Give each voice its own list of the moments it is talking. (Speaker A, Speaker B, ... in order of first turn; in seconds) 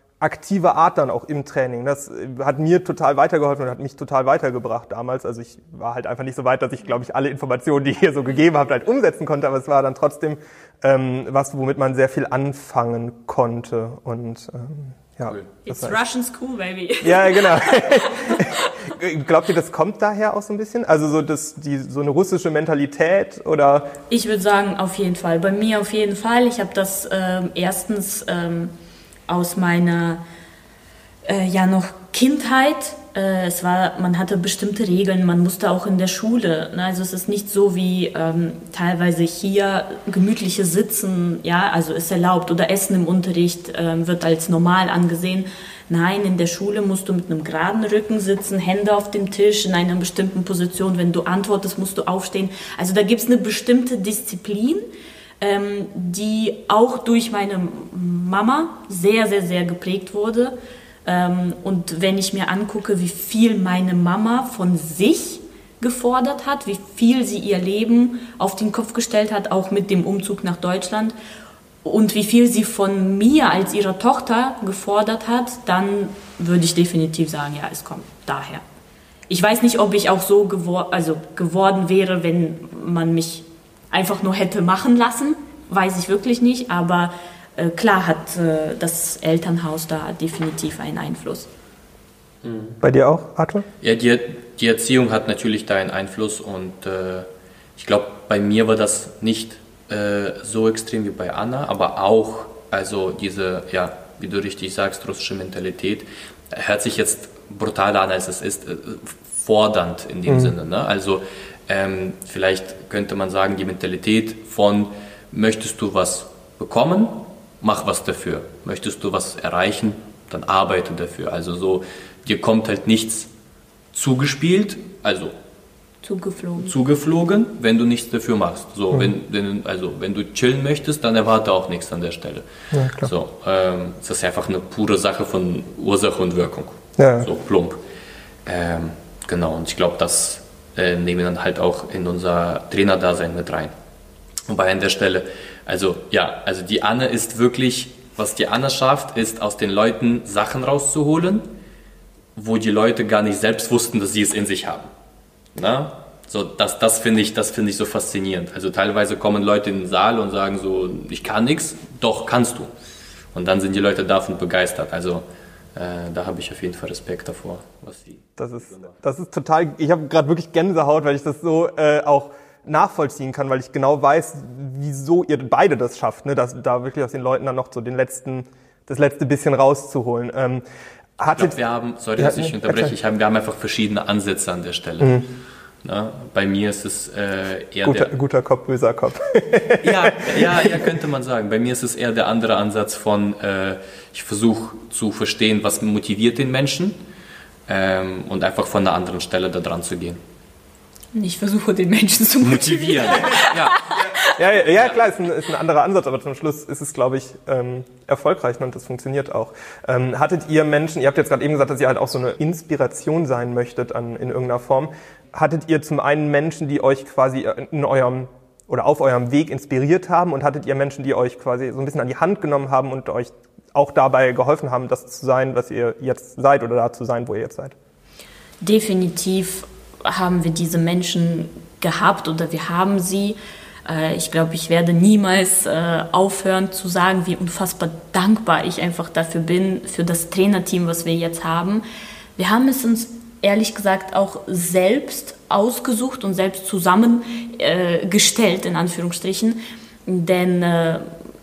Speaker A: 0.2-15.9, 17.0-23.9, 92.8-93.7, 110.3-110.5, 132.7-133.1, 137.0-137.3, 168.4-180.6, 181.2-181.6, 182.2-182.9, 185.0-185.3, 187.8-191.0, 204.2-227.8
Speaker B: 15.7-18.9, 24.1-28.7, 29.3-30.2, 31.2-54.9, 55.4-71.1, 71.8-78.6, 79.3-91.5, 126.0-126.8, 201.1-204.3, 228.6-241.8, 242.4-251.1
Speaker C: 92.4-92.8, 93.8-123.3, 123.9-125.3, 126.6-132.5, 133.0-137.8, 138.5-143.7, 144.5-151.5, 152.3-154.9, 155.5-162.7, 163.3-165.2, 165.8-168.9, 181.3-185.2, 185.8-188.1, 189.8-197.0, 197.7-200.2, 202.4-203.8